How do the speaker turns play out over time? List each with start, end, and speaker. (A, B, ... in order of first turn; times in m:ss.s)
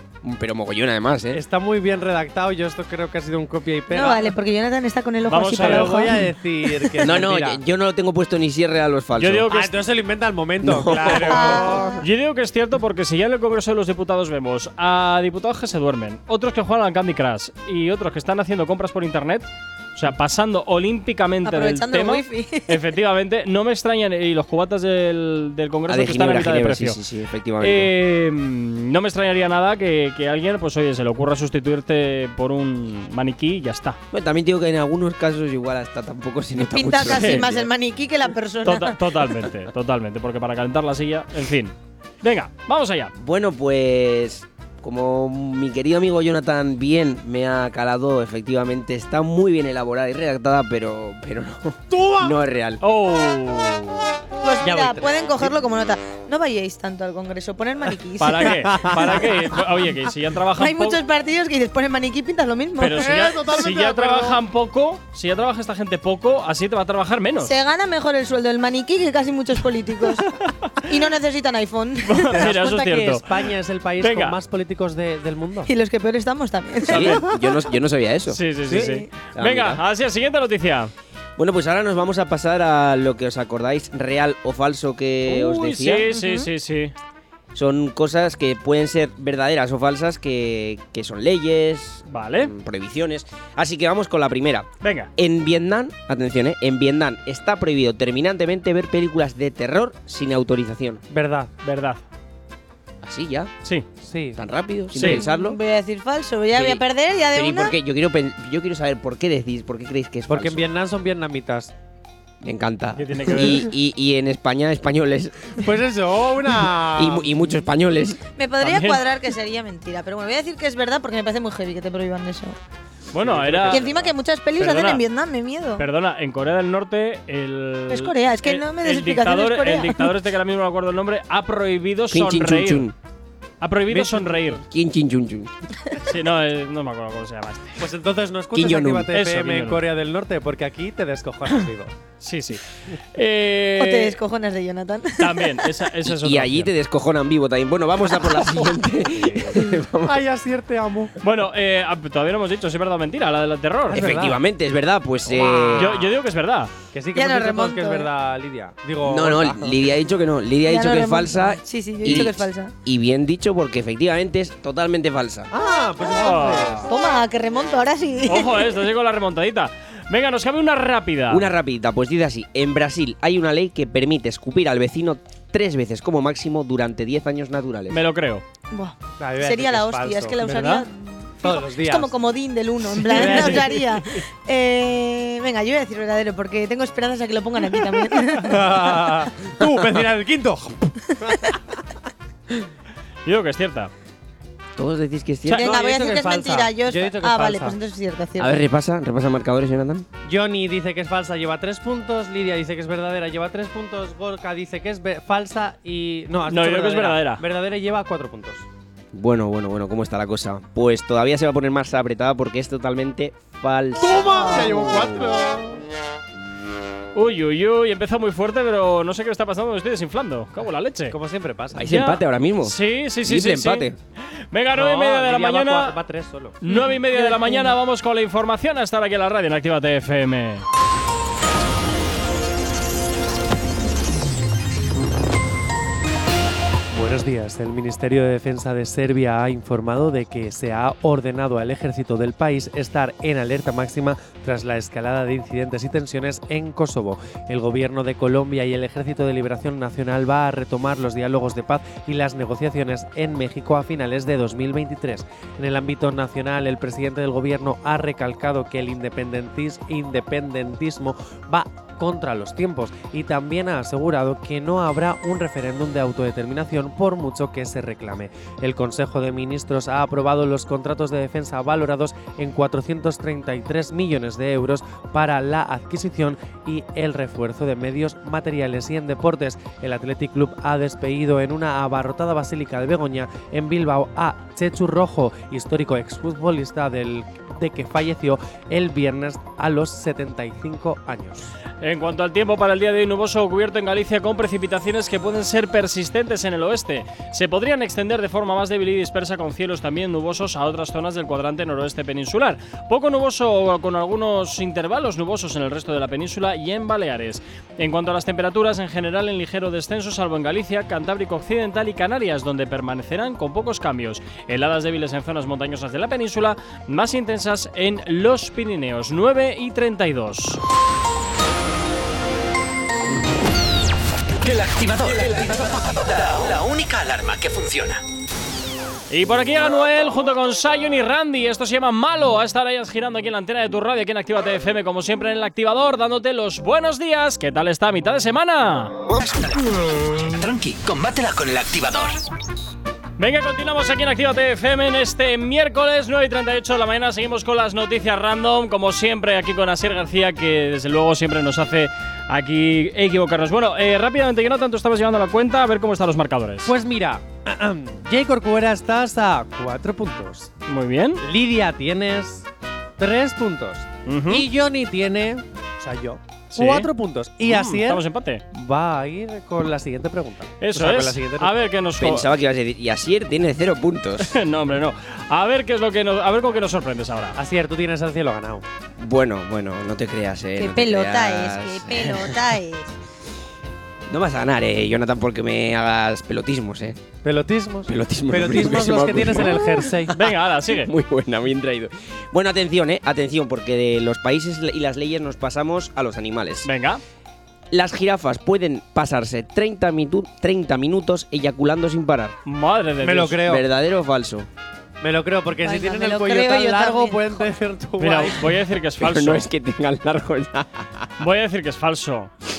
0:00.2-0:01.4 A
0:01.3-0:04.4 B
0:03.9-0:06.9 C
0:05.3-0:06.1 D
0:05.6-0:07.6 B
0:07.0-0:09.5 A
0:09.2-0:09.8 D
0:09.5-0:12.0 B
0:10.6-0:11.6 A
0:11.0-0:27.0 D
0:11.3-0:12.0 C
0:21.4-0:22.8 C
0:25.9-0:27.9 A
0:27.6-0:34.0 D
0:34.1-0:37.7 A
0:36.7-0:39.0 C
0:37.1-0:37.5 D
0:38.6-0:43.1 D
0:43.2-0:52.8 A
0:51.9-0:52.4 B
0:52.8-0:54.1 D
0:54.4-0:59.3 C
0:54.6-0:55.6 B
0:58.2-1:01.0 D
0:58.4-0:59.3 B
1:00.6-1:03.2 C
1:02.8-1:07.6 D
1:02.9-1:04.4 B
1:07.4-1:12.4 C
1:12.0-1:13.3 D
1:12.3-1:15.7 B
1:14.0-1:14.4 D
1:15.6-1:17.3 C
1:16.9-1:19.8 A
1:16.9-1:17.2 D
1:18.3-1:20.9 D
1:18.8-1:19.1 C
1:21.4-1:26.1 A
1:25.3-1:26.9 D
1:26.1-1:26.5 C
1:27.5-1:41.0 A
1:32.1-1:32.5 D
1:34.8-1:35.1 D
1:41.1-1:41.5 B
1:41.6-1:42.0 D
1:43.0-1:43.5 A
1:44.0-1:44.4 B
1:44.4-1:45.6 A
1:45.0-1:45.2 D
1:45.0-1:47.8 C
1:46.5-1:50.6 A
1:50.3-1:51.7 B
1:52.4-1:55.6 A
1:53.0-1:53.7 D
1:55.6-1:57.4 B
1:57.0-1:58.2 A
1:58.3-2:02.6 C
1:58.6-1:59.0 D
2:03.1-2:03.9 D
2:03.2-2:04.1 B
2:03.7-2:05.8 C
2:04.6-2:05.0 D
2:05.8-2:12.9 D
2:07.9-2:10.1 C
2:12.1-2:13.0 A
2:13.6-2:14.6 D
2:13.9-2:14.4 B
2:14.6-2:15.5 A
2:16.0-2:17.8 D
2:17.8-2:21.9 B
2:18.5-2:19.1 A
2:19.1-2:19.8 D
2:22.2-2:24.2 D
2:23.8-2:25.7 C
2:25.2-2:26.7 D
2:26.0-2:30.2 A
2:28.2-2:28.6 C
2:29.1-2:31.2 B
2:31.2-2:34.1 D
2:33.9-2:34.4 B
2:33.9-2:35.9 A
2:35.3-2:35.9 C
2:35.4-2:35.7 B
2:35.8-2:36.7 D
2:36.9-2:39.9 B
2:37.1-2:38.1 C
2:39.0-2:45.5 A
2:40.6-2:42.7 C
2:45.5-2:46.9 B
2:46.1-2:46.8 D
2:46.8-2:48.7 C
2:48.3-2:51.5 D
2:51.3-2:58.0 A
2:57.9-2:58.4 D
2:58.7-3:08.9 C
2:59.2-3:00.4 B
3:00.4-3:00.9 D
3:01.4-3:02.1 B
3:03.0-3:03.8 B
3:03.1-3:04.2 D
3:08.4-3:11.6 B
3:11.3-3:11.5 C
3:13.3-3:13.9 D
3:14.8-3:15.7 A
3:15.5-3:18.6 C
3:15.5-3:17.8 B
3:18.4-3:20.1 A
3:20.2-3:28.7 B
3:26.5-3:27.4 D
3:29.1-3:35.1 A
3:34.0-3:35.8 B
3:34.4-3:34.7 C
3:37.2-3:41.2 D
3:41.1-3:41.9 B
3:41.8-3:44.0 A
3:41.8-3:43.9 D
3:44.5-3:46.0 D
3:44.7-3:46.6 B
3:46.6-3:50.6 D
3:46.7-3:47.8 C
3:56.9-4:51.5 B
4:51.8-5:20.6 D
5:24.4-5:28.0 E
5:29.1-5:39.0 D
5:39.1-5:42.2 E
5:43.2-5:56.7 D
5:56.6-6:00.5 B
6:00.7-6:01.2 D
6:01.2-6:11.6 B
6:04.1-6:04.4 D
6:06.5-6:06.9 D
6:07.4-6:08.4 D
6:10.6-6:12.3 D
6:12.0-6:14.4 A
6:14.2-6:17.4 D
6:17.4-6:18.6 B
6:19.0-6:22.4 A
6:20.6-6:22.9 C
6:24.1-6:27.0 A
6:27.2-6:30.2 B
6:27.9-6:29.9 A
6:30.1-6:30.9 D
6:30.7-6:36.7 A
6:36.6-6:37.0 D
6:37.7-6:42.4 A
6:42.4-6:43.4 D
6:43.0-6:43.6 B
6:43.4-6:44.5 A
6:45.0-6:48.4 B
6:45.6-6:47.4 C
6:48.0-6:49.5 D
6:49.0-6:50.9 A
6:51.2-6:52.3 D